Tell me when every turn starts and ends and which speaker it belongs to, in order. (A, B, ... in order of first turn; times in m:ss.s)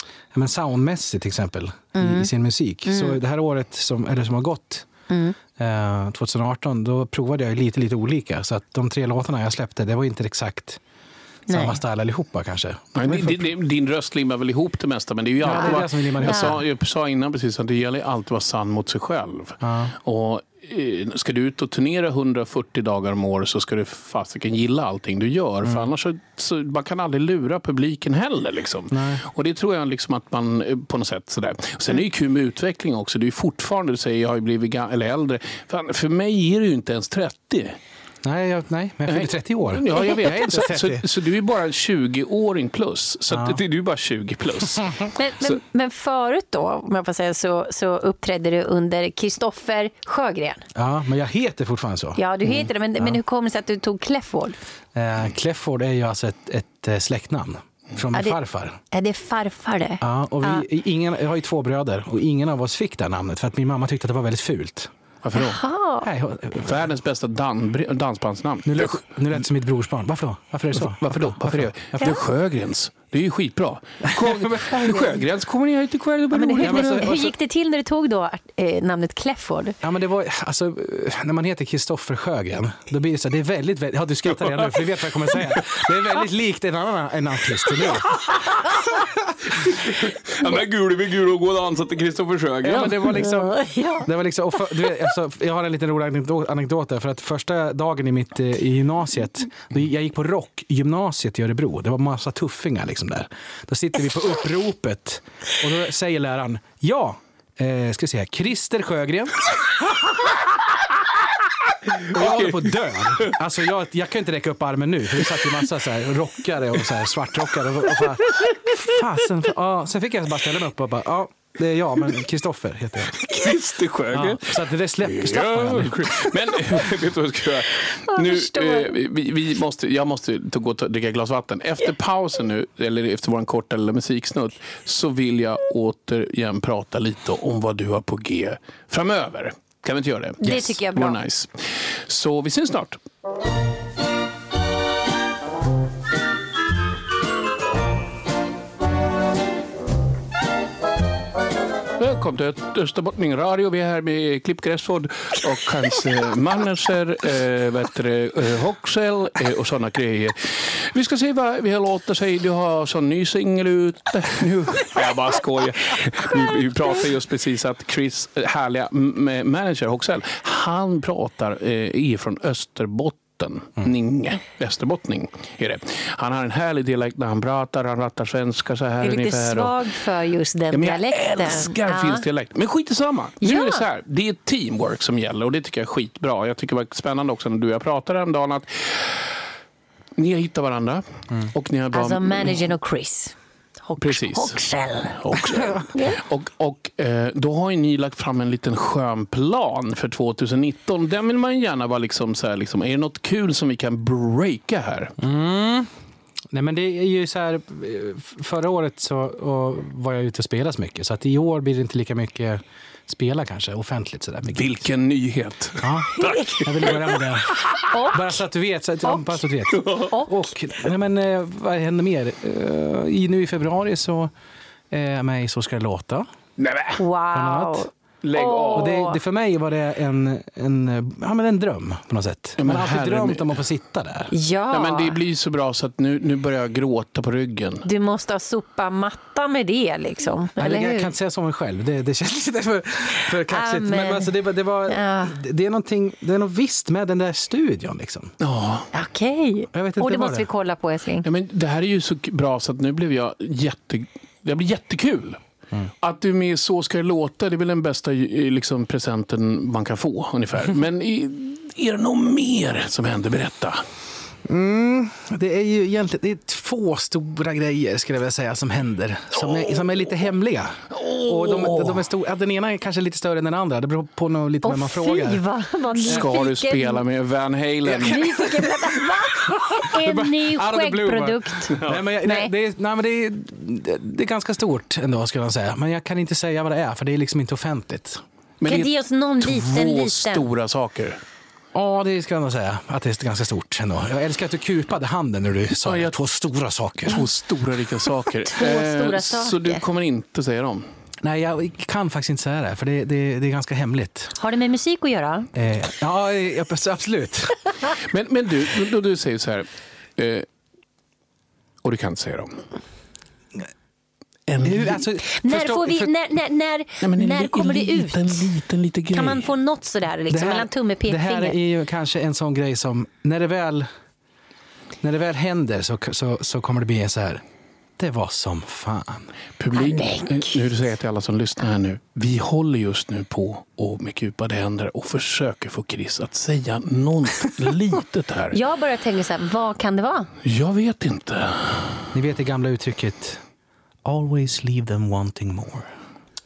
0:00.3-0:04.9 A
0:01.9-0:02.3 B
0:02.8-0:03.2 B
0:05.1-0:05.4 B
0:05.6-0:10.8 A
0:11.5-0:11.8 B
0:11.5-0:13.5 A
0:13.0-0:37.8 C
0:15.4-0:16.6 A
0:15.5-0:16.5 B
0:19.6-0:19.9 A
0:28.9-0:29.2 A
0:38.2-0:41.0 A
0:39.1-0:45.5 C
0:43.3-0:43.6 A
0:45.1-0:50.6 B
0:50.7-0:53.2 A
0:52.2-0:54.6 B
0:54.9-0:58.8 A
0:58.9-1:00.6 B
1:00.0-1:04.9 A
1:05.2-1:05.6 C
1:05.4-1:06.1 B
1:06.0-1:06.8 A
1:06.6-1:09.0 C
1:08.6-1:12.2 A
1:10.8-1:16.9 C
1:14.1-1:14.7 A
1:16.3-1:19.8 B
1:16.6-1:17.3 A
1:19.8-1:28.2 A
1:24.2-1:24.8 C
1:25.5-1:25.8 C
1:29.6-1:33.2 C
1:32.6-1:49.5 A
1:33.2-1:34.1 B
1:52.0-1:53.4 C
1:52.1-2:03.2 A
2:03.2-2:23.0 C
2:04.1-2:06.3 A
2:08.1-2:08.9 B
2:20.4-2:21.2 B
2:32.0-2:59.8 C
2:59.0-3:02.2 B
3:00.7-3:09.4 C
3:03.4-3:03.8 B
3:10.2-3:12.6 C
3:11.9-3:13.3 B
3:13.9-3:15.2 B
3:14.0-3:25.1 C
3:25.2-3:25.9 A
3:26.5-3:34.8 A
3:34.6-3:37.8 C
3:35.8-3:44.3 A
3:37.8-3:38.4 B
3:39.0-3:39.4 B
3:39.8-3:40.1 C
3:39.9-3:40.3 B
3:44.9-3:46.3 A
3:46.6-3:47.0 C
3:47.0-3:49.2 B
3:47.3-3:47.8 A
3:48.2-3:48.9 C
3:48.7-3:54.3 A
3:52.6-3:53.5 C
3:54.3-3:55.2 B
3:54.7-3:57.8 C
3:57.8-4:01.1 B
4:00.6-4:08.3 A
4:03.5-4:04.3 B
4:04.9-4:05.4 B
4:08.4-4:08.9 C
4:08.9-4:11.2 B
4:09.7-4:10.5 A
4:11.2-4:15.4 C
4:16.0-4:23.8 C
4:24.4-4:35.4 A
4:29.4-4:29.9 C
4:30.9-4:32.1 C
4:34.6-4:37.0 B
4:36.0-4:38.5 C
4:38.0-4:42.5 B
4:40.0-4:48.2 A
4:48.6-4:51.2 C
4:48.7-4:50.4 B
4:51.7-4:57.2 A
4:55.8-4:56.1 C
4:57.1-5:00.9 C
4:58.5-4:59.8 B
5:01.2-5:04.3 A
5:04.4-5:05.5 B
5:05.5-5:07.6 A
5:08.1-5:10.4 C
5:11.8-5:12.6 C
5:14.5-5:15.0 C
5:14.6-5:16.1 A
5:15.3-5:18.5 B
5:17.0-5:19.5 C
5:19.1-5:21.5 B
5:20.3-5:23.9 A
5:25.0-5:27.4 A
5:28.0-5:29.3 A
5:29.6-5:38.6 C
5:29.7-5:30.6 B
5:38.5-5:40.3 B
5:40.4-5:42.0 C
5:42.1-5:43.4 A
5:44.0-5:45.9 A